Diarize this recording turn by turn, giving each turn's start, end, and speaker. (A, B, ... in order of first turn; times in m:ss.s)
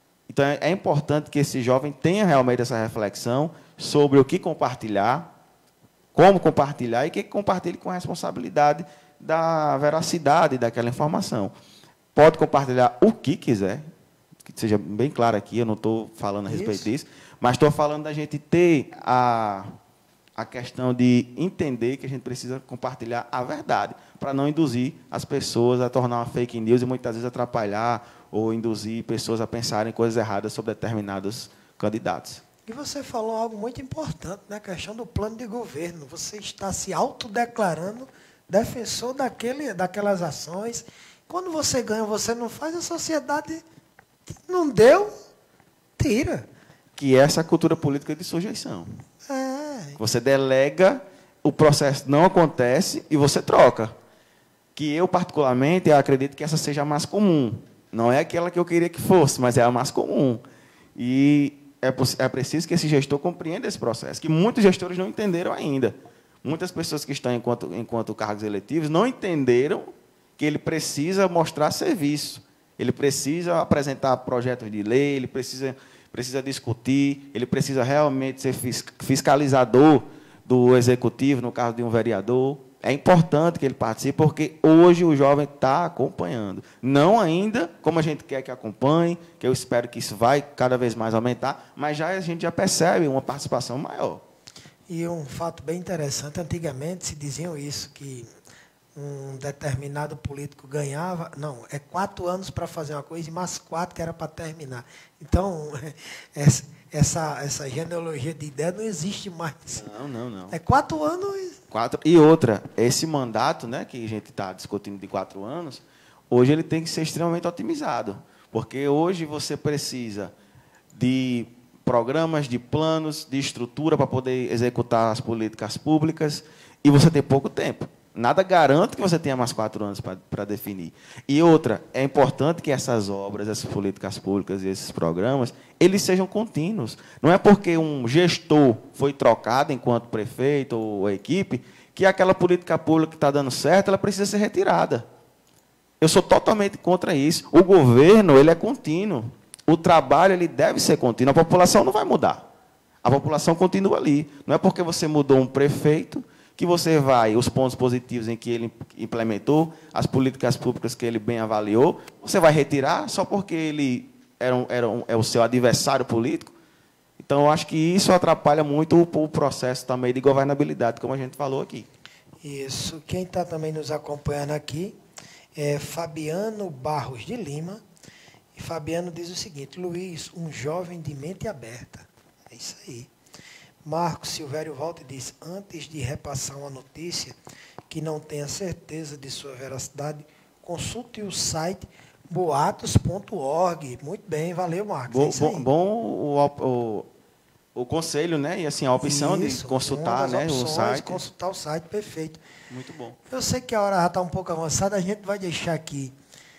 0:00.3-0:05.3 A
0:06.2-0:11.5 A
0:12.2-0:13.9 A
0:14.4-0:19.7 A
0:16.5-0:16.9 B
0:20.4-0:32.4 A
0:32.7-0:43.6 B
0:44.3-0:45.1 B
0:46.0-0:46.5 B
0:47.0-0:49.0 A
0:49.3-0:50.0 B
0:50.0-0:53.9 A
0:54.8-1:00.4 A
1:01.0-1:34.2 A
1:34.9-1:38.3 B
1:39.0-1:49.9 B
1:49.8-1:50.6 A
1:50.5-1:51.6 B
1:51.7-2:00.3 A
2:00.9-2:25.1 A
2:26.0-2:32.5 A
2:33.0-2:46.5 A
2:47.2-2:51.9 A
2:52.4-2:55.0 B
2:55.6-2:57.8 B
2:58.6-3:03.1 B
3:03.8-3:07.4 B
3:07.9-3:15.7 B
3:15.1-3:17.1 A
3:17.8-3:21.2 A
3:19.0-3:22.4 B
3:22.7-3:23.2 A
3:23.3-3:26.2 B